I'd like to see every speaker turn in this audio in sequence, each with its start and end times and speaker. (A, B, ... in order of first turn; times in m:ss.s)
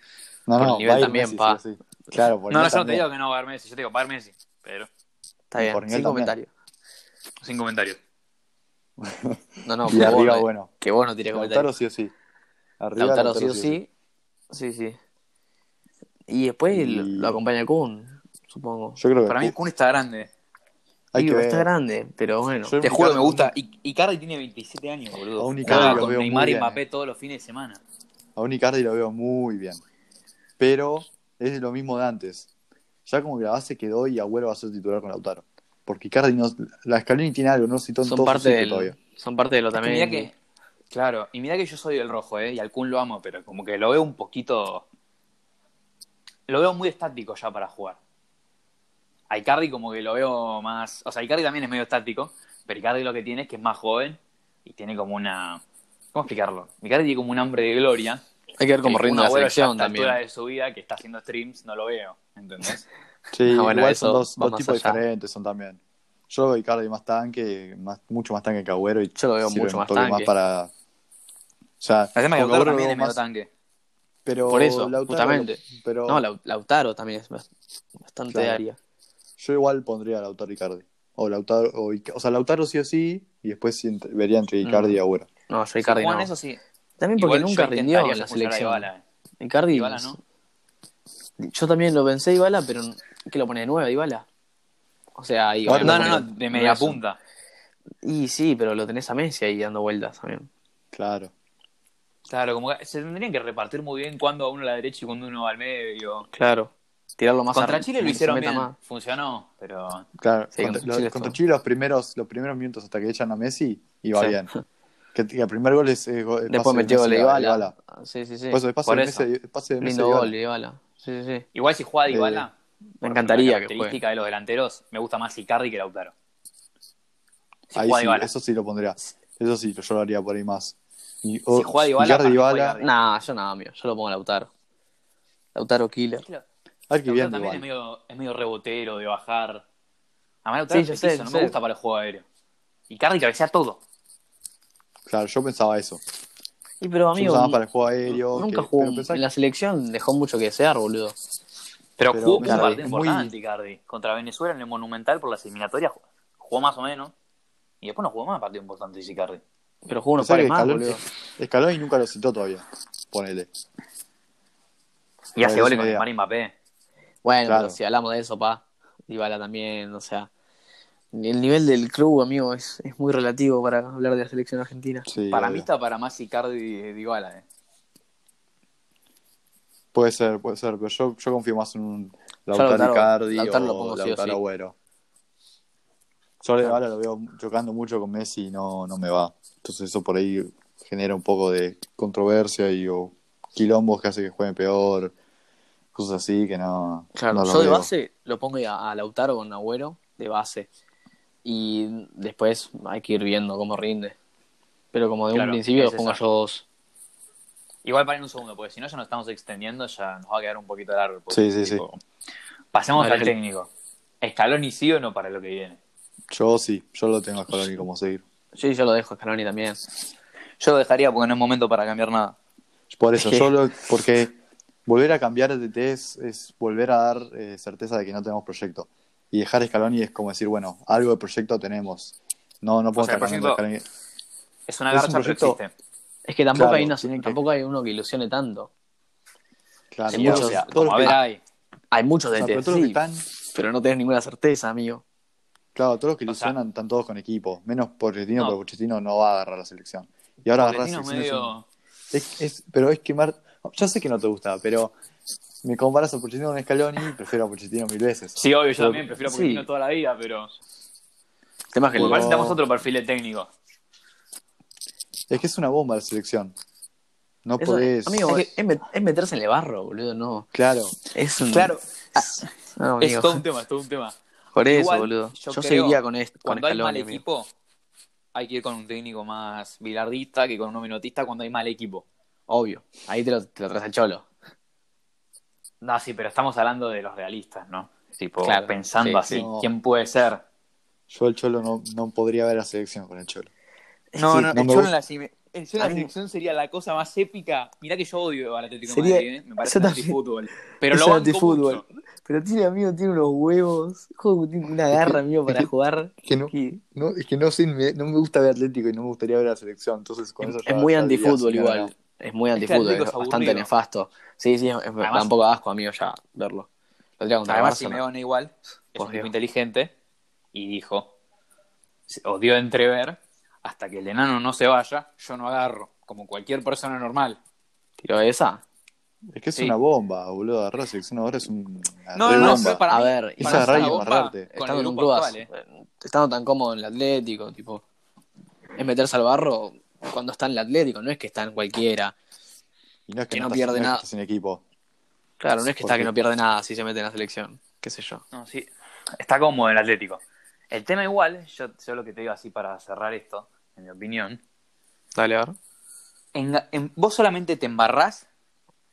0:00.5-0:03.0 A
0:00.6-0:01.6 B
0:02.5-0:04.9 C
0:05.5-0:06.5 B
0:05.6-0:06.4 A
0:07.4-0:08.0 C
0:09.0-0:10.7 A
0:09.6-0:11.7 B
0:11.3-0:12.1 A
0:12.8-0:13.8 A
0:13.0-0:13.9 B
0:14.5-0:15.0 B
0:16.3-0:19.0 B
0:16.7-0:17.4 A
0:19.0-0:19.6 A
0:19.3-0:20.3 C
0:21.1-0:21.7 A
0:21.2-0:22.8 B
0:22.6-0:23.5 A
0:22.8-0:27.8 C
0:25.4-0:26.8 A
0:25.7-0:26.1 B
0:28.4-0:29.8 A
0:30.6-0:32.5 A
0:33.1-0:39.0 A
0:38.0-0:40.3 B
0:39.7-0:40.3 C
0:40.9-0:44.9 C
0:46.5-0:48.0 C
0:49.3-0:55.6 C
0:56.1-0:58.2 C
0:58.6-1:00.2 B
0:58.8-1:02.9 C
1:03.3-1:05.8 A
1:03.5-1:05.0 B
1:06.3-1:10.7 A
1:09.2-1:10.3 B
1:11.8-1:13.2 A
1:12.2-1:13.5 C
1:14.2-1:16.2 A
1:14.5-1:17.5 B
1:18.0-1:18.8 B
1:18.3-1:18.6 A
1:19.4-1:25.3 A
1:24.6-1:26.3 B
1:25.8-1:26.6 C
1:27.0-1:28.9 B
1:27.2-1:29.0 C
1:29.4-1:30.2 B
1:29.7-1:30.2 C
1:31.4-1:34.3 B
1:35.2-1:37.0 B
1:35.6-1:36.3 A
1:35.7-1:37.2 C
1:38.0-1:40.5 B
1:40.9-1:41.3 A
1:42.3-1:46.3 C
1:46.3-1:48.8 B
1:47.5-1:50.1 C
1:50.2-1:54.5 A
1:50.6-1:51.4 B
1:54.2-1:54.5 B
1:55.1-1:57.7 A
1:56.5-1:58.6 B
1:58.5-2:00.3 A
1:58.8-1:59.3 C
1:59.8-2:01.4 B
2:01.5-2:06.1 C
2:02.1-2:02.5 A
2:03.0-2:04.0 B
2:07.7-2:08.3 C
2:07.8-2:12.8 A
2:11.5-2:12.9 C
2:12.8-2:14.5 B
2:15.6-2:16.3 B
2:16.9-2:17.7 A
2:17.0-2:19.6 C
2:20.4-2:22.2 C
2:20.7-2:21.6 B
2:22.9-2:23.8 C
2:25.1-2:26.0 A
2:26.8-2:31.2 B
2:27.2-2:29.2 A
2:32.0-2:37.1 C
2:32.1-2:33.3 A
2:37.8-2:39.4 C
2:39.8-2:41.0 B
2:40.2-2:43.5 A
2:45.4-2:46.5 C
2:45.4-2:46.1 A
2:47.2-2:50.3 B
2:47.4-2:47.8 A
2:51.1-2:55.1 B
2:55.1-2:55.7 A
2:55.3-2:57.4 C
2:59.9-3:04.7 A
3:02.5-3:04.4 B
3:06.4-3:15.1 A
3:15.9-3:17.9 A
3:17.2-3:20.7 B
3:21.4-3:24.2 B
3:24.9-3:26.6 B
3:25.3-3:26.2 C
3:27.8-3:32.0 C
3:31.3-3:31.8 A
3:32.7-3:33.7 C
3:33.0-3:33.3 B
3:34.2-3:35.8 C
3:36.3-3:38.2 A
3:38.5-3:39.8 B
3:40.6-3:42.4 C
3:42.9-3:53.8 A
3:43.2-3:43.5 B
3:53.0-3:53.6 C
3:54.7-3:55.7 C
3:54.9-3:55.6 A
3:56.3-3:58.7 B
3:56.5-3:57.4 A
3:59.9-4:01.2 A
4:00.1-4:01.4 C
4:00.1-4:01.2 B
4:01.9-4:03.0 B
4:02.4-4:03.2 A
4:03.5-4:05.0 B
4:05.8-4:11.5 A
4:06.3-4:06.6 C
4:10.6-4:11.6 C
4:12.1-4:14.9 A
4:15.6-4:19.0 A
4:18.4-4:20.6 C
4:19.0-4:19.7 B
4:21.7-4:22.4 B
4:21.9-4:22.6 A
4:22.0-4:23.5 C
4:25.3-4:26.5 A
4:27.4-4:28.4 A
4:27.6-4:30.5 B
4:30.5-4:31.0 A
4:31.1-4:33.4 B
4:31.5-4:37.5 C
4:34.5-4:37.2 B
4:38.4-4:42.1 C
4:42.5-4:44.3 B
4:45.8-4:50.4 C
4:48.4-4:49.4 B
4:49.3-4:49.7 A
4:51.1-4:53.5 A
4:54.1-4:54.6 B
4:54.2-5:01.8 C
4:54.5-4:54.9 A
4:55.8-4:56.1 B
4:58.9-5:00.2 B
5:00.8-5:06.8 B
5:04.9-5:05.7 A
5:06.2-5:11.9 A
5:10.4-5:16.7 B
5:12.6-5:13.7 C
5:15.0-5:15.3 C
5:17.2-5:18.0 B
5:17.4-5:19.9 C
5:19.0-5:19.3 B
5:20.5-5:21.1 C
5:22.1-5:27.4 C
5:28.0-5:28.6 B
5:29.3-5:32.8 A
5:32.2-5:35.5 C
5:32.3-5:37.8 B
5:33.4-5:34.5 A
5:38.8-5:42.1 B
5:43.1-5:44.6 A
5:43.3-5:44.0 B
5:45.4-5:48.2 B
5:45.7-5:46.1 A
5:48.3-5:54.4 C
5:55.2-5:55.6 B
5:56.3-5:58.3 C